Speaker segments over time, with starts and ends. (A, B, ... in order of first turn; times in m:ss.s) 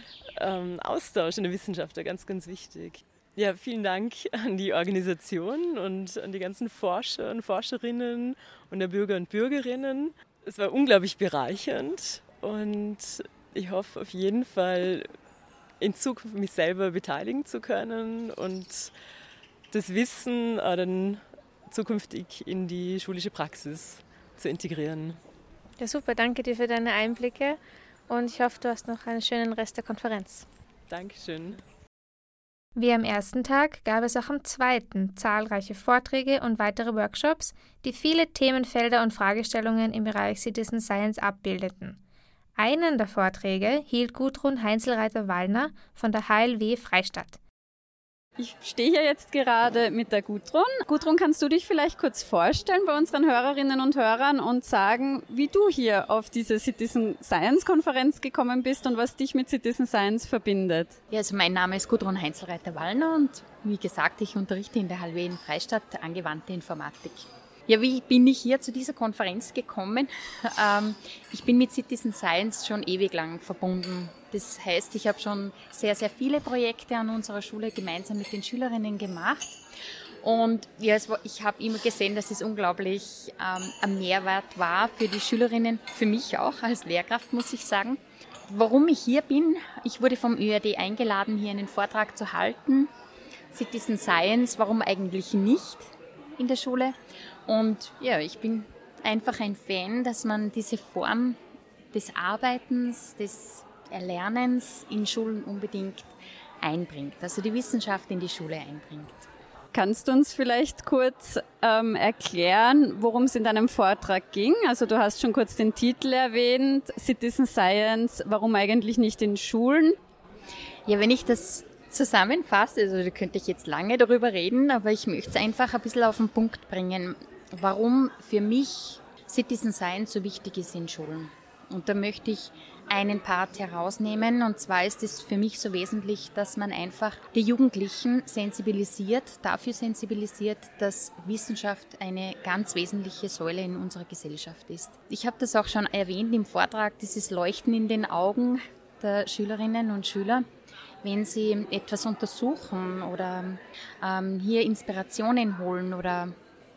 0:00.4-0:15.1 A
0:15.8-0:18.9 A
0:19.7-0:25.2 A
0:25.8-0:30.4 B
0:30.9-0:31.6 A
0:32.8-0:42.0 B
0:42.6-0:47.4 B
0:48.4-1:01.0 C
1:01.1-1:19.6 D
1:20.2-1:32.9 D
1:33.5-1:36.9 D
1:37.5-1:41.4 D
1:41.9-1:46.1 D
1:46.6-1:49.3 D
1:49.7-2:00.0 C
2:00.8-2:30.4 D
2:31.0-2:36.3 D